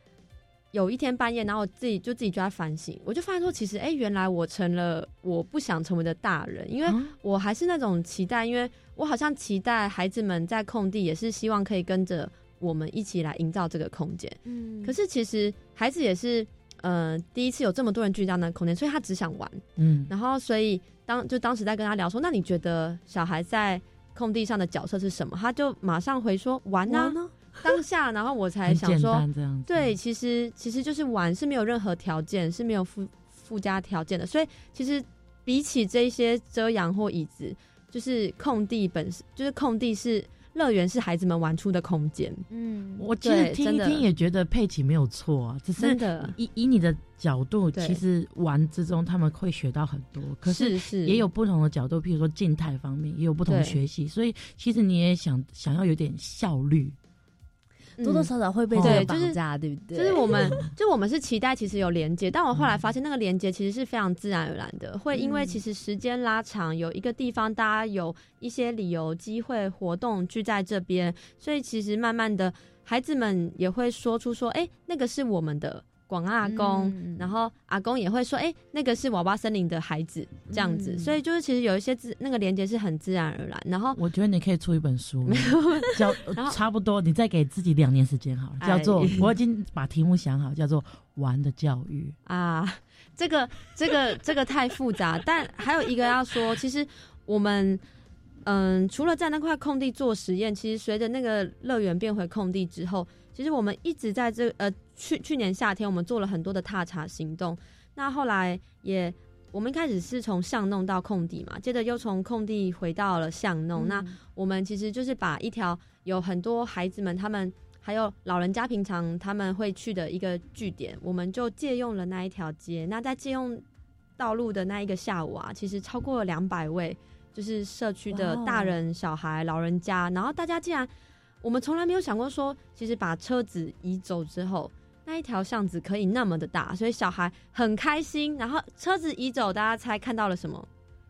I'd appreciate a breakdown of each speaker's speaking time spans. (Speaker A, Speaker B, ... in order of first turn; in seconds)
Speaker A: 0.7-42.5, 43.2-44.0, 45.8-46.3, 47.7-48.0, 50.5-51.2, 53.5-53.8, 58.0-58.3, 58.8-59.4, 59.9-84.0, 85.3-86.5, 88.6-89.2, 92.2-97.8, 98.4-123.6, 124.2-130.9, 131.4-140.7
Speaker B: 6.8-7.1, 19.8-20.1, 28.7-29.9, 43.0-57.0, 58.7-59.1, 60.4-60.7, 62.5-62.9, 83.9-92.2
Speaker C: 14.4-14.9, 26.9-27.6, 42.5-43.0, 58.0-60.6, 65.1-65.6, 76.4-77.3, 80.5-81.2, 113.8-114.2, 128.1-128.8